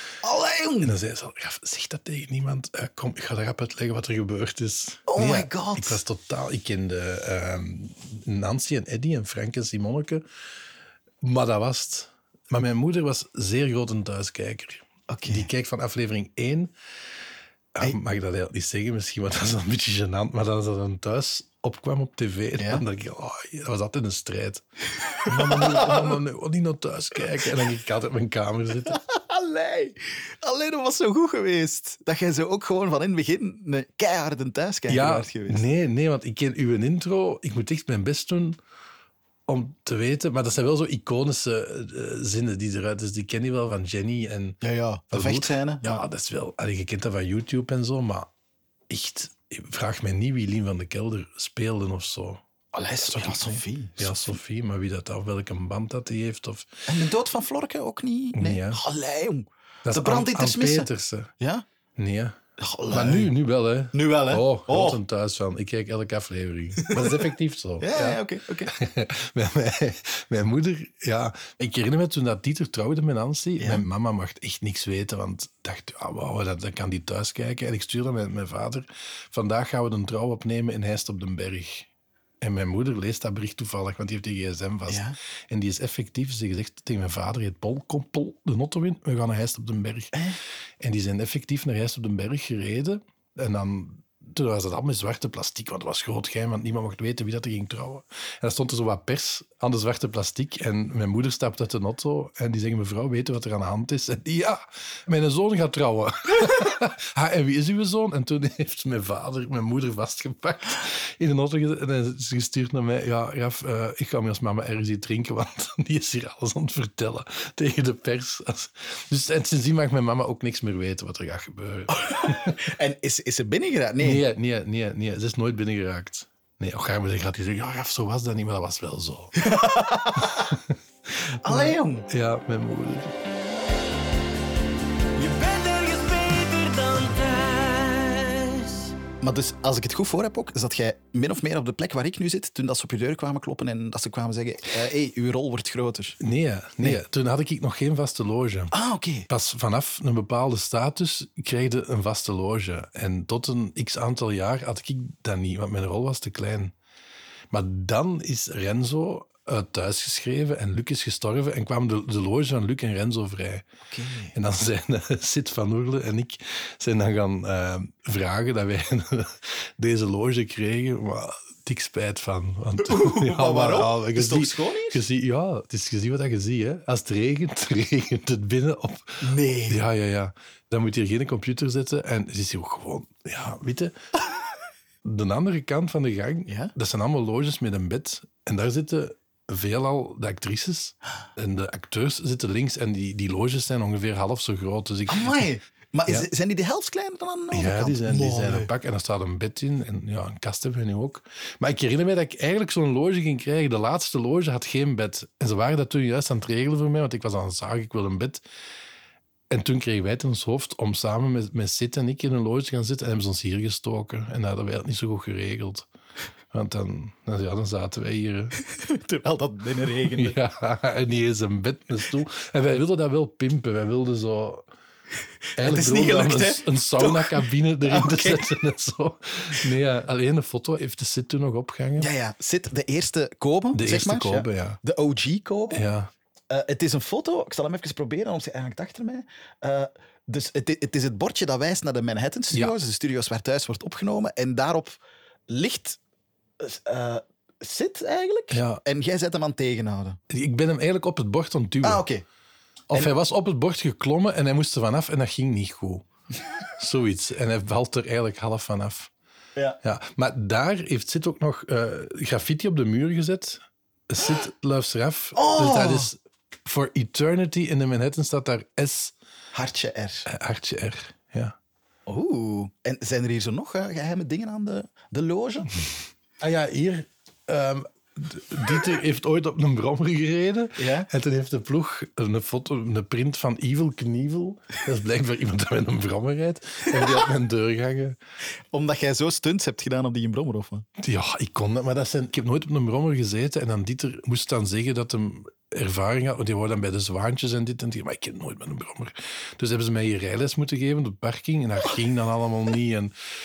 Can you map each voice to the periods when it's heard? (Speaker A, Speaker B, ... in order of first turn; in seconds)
Speaker A: 0.2-0.9, 5.1-6.0, 15.1-15.5, 22.6-22.8, 25.2-26.1, 28.9-35.6, 44.6-46.0, 52.7-54.4, 56.9-61.6, 62.6-63.3, 63.9-65.0, 66.8-67.2, 67.8-68.7, 84.9-85.2, 121.9-124.2, 129.4-130.6, 131.4-132.1, 139.2-146.2, 148.7-149.3, 163.9-164.3, 172.8-175.0, 179.2-179.8, 186.5-186.7, 195.1-198.7, 218.8-220.4, 225.6-228.5, 232.0-235.8, 236.5-246.0, 246.6-250.2, 251.8-252.2, 265.4-266.1, 269.5-270.3, 272.1-275.7, 280.8-281.1, 288.7-290.9
Speaker B: 0.8-10.2, 11.2-16.7, 17.8-24.6, 25.2-29.0, 34.9-38.6, 39.5-48.3, 48.9-52.4, 53.0-56.7, 58.4-58.8, 59.8-61.3, 62.0-62.4, 62.9-81.9, 82.4-90.2, 90.8-122.7, 124.0-129.5, 130.2-133.1, 146.2-148.7, 149.3-156.7, 157.5-163.7, 164.3-183.9, 185.0-195.5, 197.5-208.4, 209.5-215.9, 216.5-218.6, 220.1-224.7, 225.6-232.1, 233.7-234.8, 235.7-236.1, 248.5-248.8, 250.3-252.1, 252.9-256.1, 256.8-259.1, 259.8-269.1, 270.3-271.6, 276.4-288.2, 291.0-303.1
Speaker C: 135.2-138.9